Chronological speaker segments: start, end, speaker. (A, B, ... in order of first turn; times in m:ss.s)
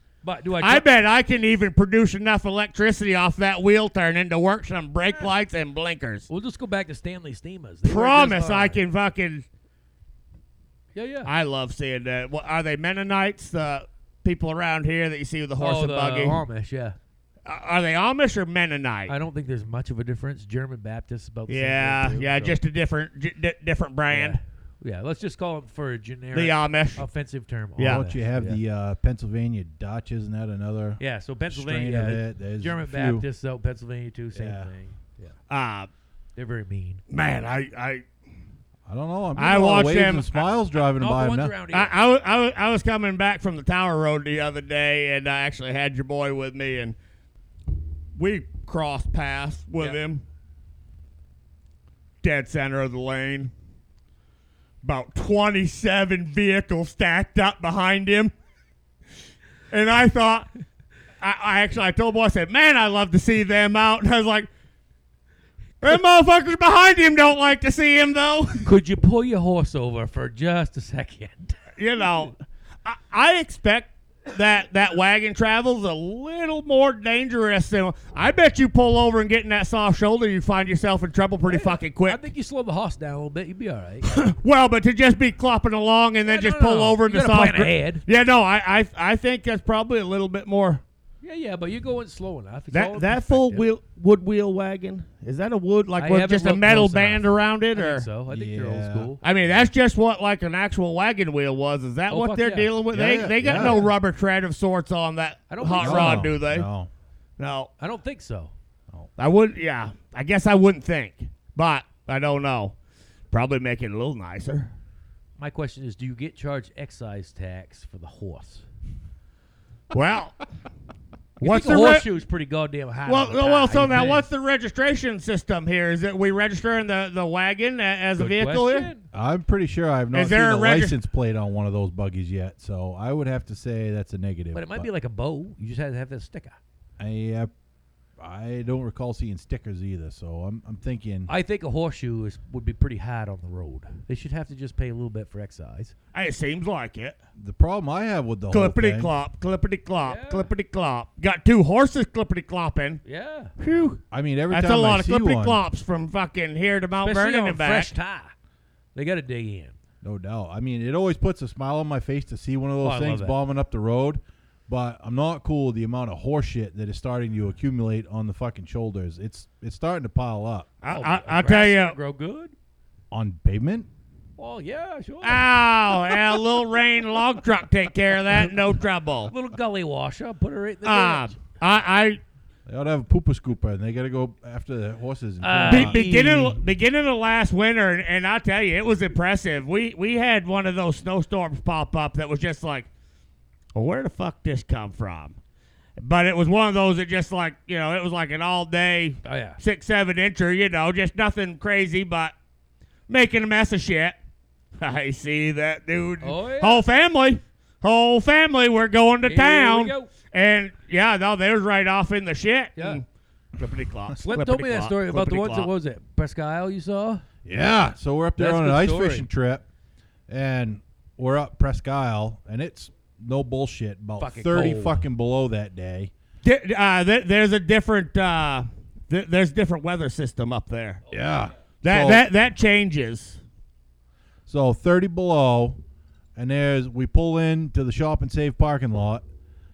0:00.2-0:00.8 A
0:00.6-0:06.3 B
0:06.3-0:08.8 A
0:07.8-0:09.4 B
0:11.0-0:11.3 A
0:11.2-0:16.4 B
0:15.6-0:17.0 A
0:17.4-0:19.1 B
0:19.1-0:22.6 A
0:21.5-0:24.4 B
0:24.1-0:28.6 A
0:26.3-0:27.0 B
0:27.8-0:28.0 B
0:27.8-0:33.2 C
0:31.0-0:35.4 A
0:34.3-0:34.7 C
0:35.5-0:35.9 B
0:36.4-0:37.0 A
0:37.1-0:38.0 B
0:38.9-0:41.5 C
0:39.4-0:40.5 B
0:40.8-0:42.0 A
0:41.7-0:47.0 B
0:48.2-0:50.2 B
0:52.2-0:53.5 B
0:54.8-0:58.3 B
0:59.7-1:00.5 B
1:01.2-1:04.5 B
1:05.8-1:08.7 B
1:08.6-1:11.6 A
1:11.8-1:22.2 B
1:21.5-1:24.1 A
1:24.0-1:30.8 B
1:26.3-1:28.0 A
1:31.2-1:33.6 A
1:32.7-1:38.1 B
1:36.0-1:39.2 A
1:38.3-1:39.7 C
1:39.2-1:46.7 B
1:42.1-1:42.7 A
1:42.9-1:43.9 C
1:45.5-1:46.3 A
1:45.8-1:46.9 C
1:47.4-1:47.7 B
1:47.8-1:48.5 A
1:49.2-1:52.8 B
1:53.3-1:54.7 B
1:55.4-1:58.6 A
1:59.9-2:00.4 B
2:01.4-2:04.3 A
2:01.4-2:02.1 B
2:03.1-2:08.9 B
2:08.2-2:09.0 A
2:09.1-2:14.9 C
2:10.1-2:11.0 B
2:14.5-2:16.6 A
2:17.0-2:17.5 C
2:18.2-2:21.3 C
2:21.3-2:25.9 A
2:26.1-2:27.2 B
2:27.4-2:29.1 C
2:28.5-2:33.0 B
2:30.1-2:30.5 A
2:33.1-2:33.5 A
2:33.6-2:37.9 B
2:34.1-2:35.6 C
2:37.0-2:38.3 A
2:39.0-2:39.8 A
2:40.0-2:50.7 C
2:42.8-2:43.4 A
2:50.8-2:52.0 B
2:50.9-2:52.5 A
2:53.1-2:53.9 C
2:54.4-2:56.4 A
2:55.2-2:59.3 B
2:59.3-3:01.4 A
3:00.8-3:02.2 B
3:02.7-3:06.0 C
3:05.4-3:06.6 A
3:05.7-3:12.9 B
3:13.8-3:15.4 B
3:16.0-3:22.3 B
3:19.2-3:19.6 A
3:23.1-3:24.2 B
3:24.8-3:33.0 B
3:26.2-3:26.8 A
3:29.2-3:30.1 A
3:32.8-3:33.0 A
3:33.6-3:35.7 B
3:34.2-3:37.2 A
3:37.4-3:39.6 C
3:38.4-3:39.3 A
3:40.3-3:46.1 C
3:44.2-3:45.1 A
3:46.4-3:51.0 B
3:51.1-3:52.2 C
3:51.8-3:53.4 B
3:54.5-3:55.8 C
3:56.4-3:59.2 C